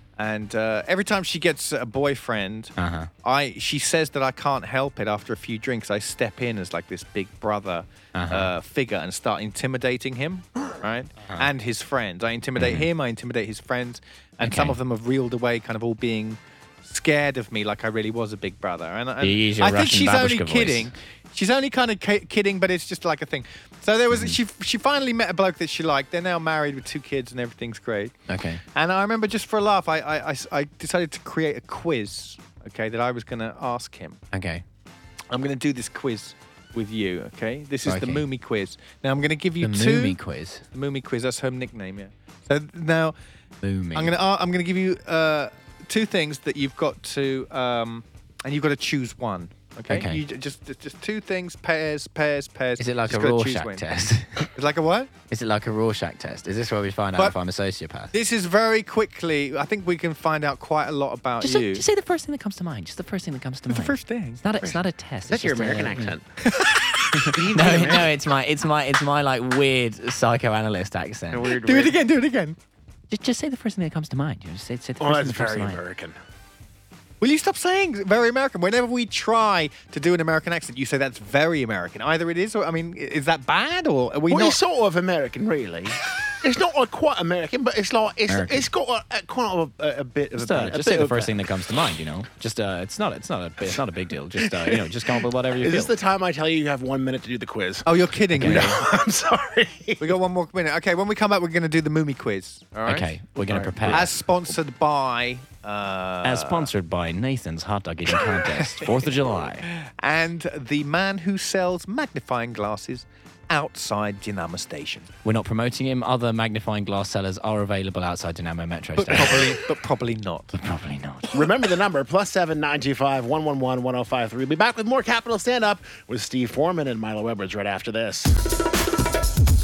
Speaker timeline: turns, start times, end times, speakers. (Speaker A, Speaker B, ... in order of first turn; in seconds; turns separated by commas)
Speaker A: 0.2-28.1, Speaker B: 2.8-3.1, Speaker B: 8.1-8.5, Speaker B: 12.6-12.9, Speaker B: 14.4-14.8, Speaker B: 19.2-20.9, Speaker B: 24.1-24.4, Speaker B: 28.3-28.6, Speaker A: 28.7-34.2, Speaker B: 34.3-34.6, Speaker A: 35.3-40.2, Speaker B: 37.9-38.2, Speaker B: 39.6-40.6, Speaker A: 40.7-43.1, Speaker B: 43.6-44.1, Speaker A: 43.9-53.9, Speaker B: 49.9-50.2, Speaker B: 52.8-54.5, Speaker A: 54.5-55.1, Speaker B: 55.3-58.1, Speaker A: 58.1-61.8, Speaker B: 61.4-66.1, Speaker A: 63.7-64.5, Speaker C: 65.3-66.2, Speaker A: 66.4-68.1, Speaker B: 67.1-71.5, Speaker C: 67.3-67.9, Speaker C: 71.3-72.0, Speaker A: 71.5-72.6, Speaker B: 73.1-75.8, Speaker C: 75.0-76.2, Speaker A: 77.2-84.6, Speaker C: 84.3-91.4, Speaker B: 88.3-88.7, Speaker B: 90.3-95.9, Speaker C: 94.4-94.9, Speaker C: 95.6-100.1, Speaker A: 97.8-98.8, Speaker B: 98.4-98.8, Speaker A: 100.0-106.7, Speaker B: 102.8-104.1, Speaker B: 106.2-109.7, Speaker A: 108.2-109.0, Speaker A: 109.7-115.1, Speaker B: 115.2-119.5, Speaker A: 119.0-120.5, Speaker B: 120.6-121.4, Speaker C: 121.3-128.4